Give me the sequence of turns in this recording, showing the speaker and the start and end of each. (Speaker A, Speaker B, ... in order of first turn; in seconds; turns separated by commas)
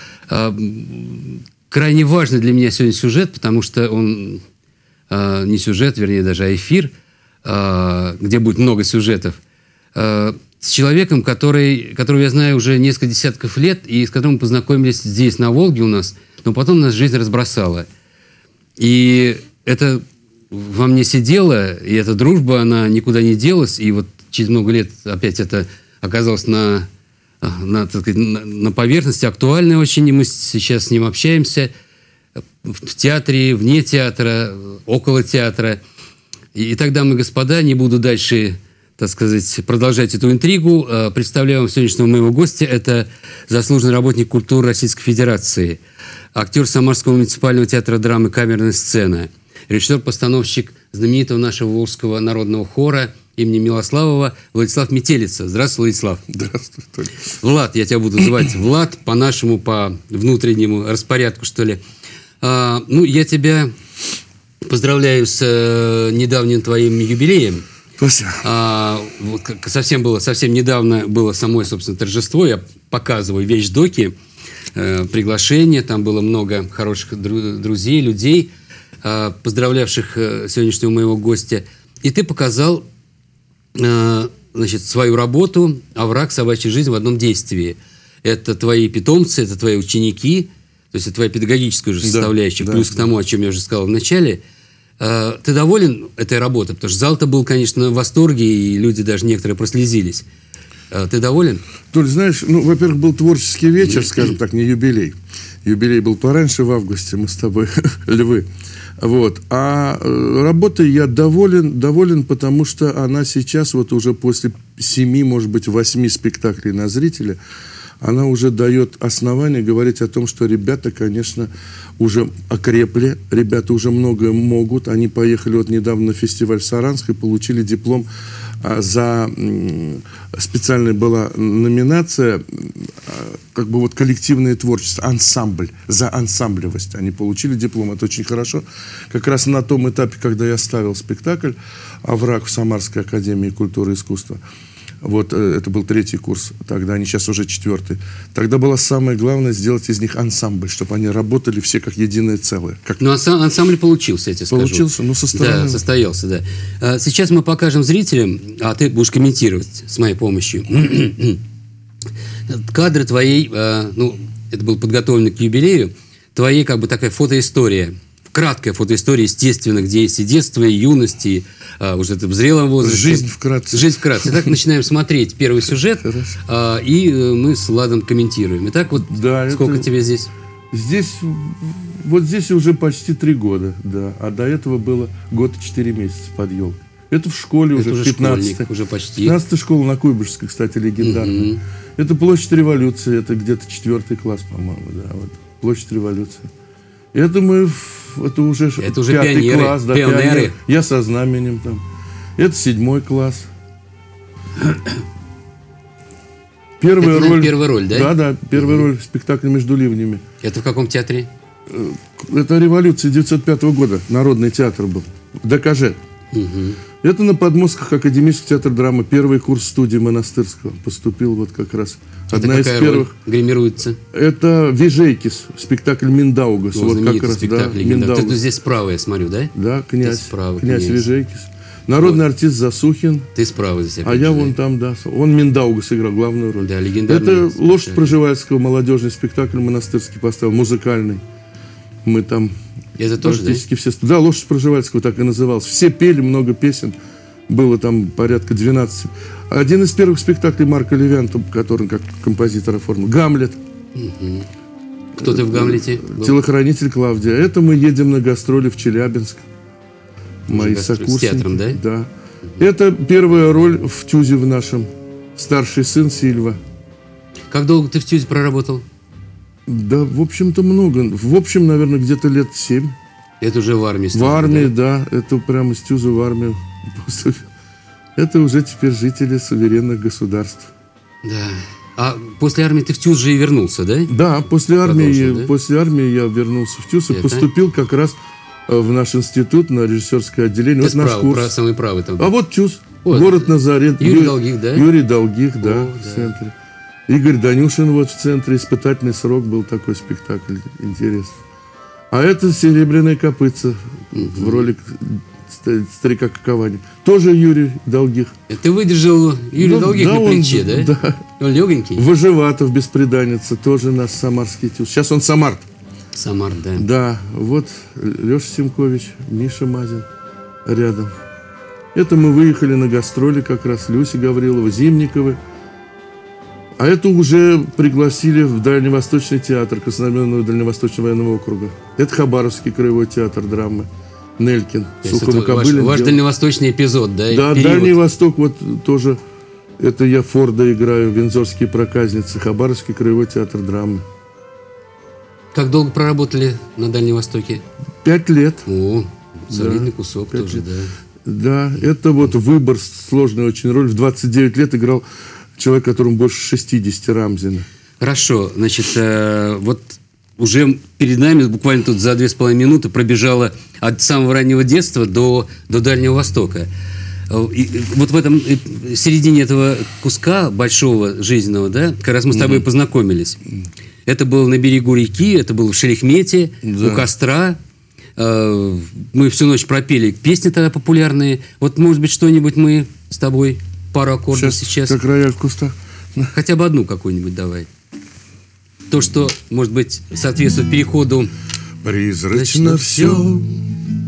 Speaker A: 0.3-4.4, Speaker A: 5.1-6.9, Speaker A: 7.4-9.4, Speaker A: 9.9-17.9, Speaker A: 18.8-26.9, Speaker A: 27.4-31.7, Speaker A: 32.6-35.8, Speaker A: 36.5-45.8, Speaker A: 46.3-56.2, Speaker B: 56.3-57.2, Speaker A: 57.4-61.8, Speaker A: 62.4-63.7, Speaker A: 64.6-67.6, Speaker B: 68.0-68.4, Speaker A: 68.4-74.1, Speaker A: 74.7-78.5, Speaker A: 79.0-82.8, Speaker A: 83.7-94.4, Speaker B: 92.0-93.0, Speaker A: 95.0-100.3, Speaker A: 100.9-101.6, Speaker B: 101.9-108.5, Speaker A: 103.8-104.3, Speaker B: 109.0-117.4, Speaker B: 118.0-128.1, Speaker B: 128.6-144.4, Speaker B: 145.0-153.0, Speaker A: 153.0-161.4, Speaker B: 154.5-155.8, Speaker A: 162.5-180.3, Speaker B: 172.8-174.6, Speaker B: 176.0-176.4, Speaker B: 179.0-179.9, Speaker B: 180.7-196.5, Speaker A: 187.8-189.4, Speaker A: 191.0-191.6, Speaker B: 197.1-201.8, Speaker A: 198.8-200.6, Speaker B: 202.4-203.5, Speaker B: 206.8-210.2, Speaker A: 207.0-208.9, Speaker A: 210.4-211.3, Speaker B: 211.7-216.0, Speaker A: 216.3-216.8, Speaker B: 217.0-223.1, Speaker A: 222.3-224.0, Speaker B: 224.1-228.4, Speaker A: 226.7-231.1, Speaker B: 229.5-233.3, Speaker A: 233.3-234.5, Speaker B: 234.0-241.2, Speaker A: 236.6-238.2, Speaker B: 242.0-242.5, Speaker A: 243.0-243.6, Speaker B: 243.2-246.9, Speaker B: 247.5-253.6, Speaker A: 253.9-254.5, Speaker A: 255.2-256.4, Speaker B: 255.2-259.5, Speaker B: 260.5-266.6, Speaker A: 260.5-261.8, Speaker A: 267.5-268.8, Speaker B: 269.6-273.0, Speaker A: 273.4-274.7, Speaker B: 274.1-277.4, Speaker B: 278.1-280.7, Speaker A: 281.2-284.1, Speaker B: 284.1-291.5, Speaker A: 284.8-285.5, Speaker A: 287.1-287.5, Speaker A: 290.8-292.3, Speaker B: 292.2-296.5, Speaker A: 293.0-294.9, Speaker A: 295.6-296.3, Speaker B: 297.1-301.4, Speaker B: 302.1-308.3, Speaker A: 304.1-304.7, Speaker A: 308.5-312.1, Speaker B: 309.6-311.2, Speaker B: 311.9-315.7, Speaker A: 316.1-316.9, Speaker B: 316.8-320.1, Speaker B: 320.6-321.1, Speaker B: 321.9-325.4, Speaker B: 326.8-336.2, Speaker A: 335.0-338.0, Speaker B: 337.3-339.2, Speaker B: 339.8-344.0, Speaker A: 345.5-347.6, Speaker B: 348.0-348.7, Speaker A: 348.6-350.9, Speaker B: 349.5-350.6, Speaker B: 351.2-355.1, Speaker B: 355.6-357.7, Speaker A: 358.0-366.7, Speaker A: 367.3-373.4, Speaker B: 372.3-372.6, Speaker A: 374.1-377.6, Speaker B: 376.6-377.1, Speaker A: 378.2-385.0, Speaker B: 384.3-386.3, Speaker A: 386.3-387.7, Speaker A: 388.9-391.3, Speaker B: 391.8-393.5, Speaker A: 392.3-393.2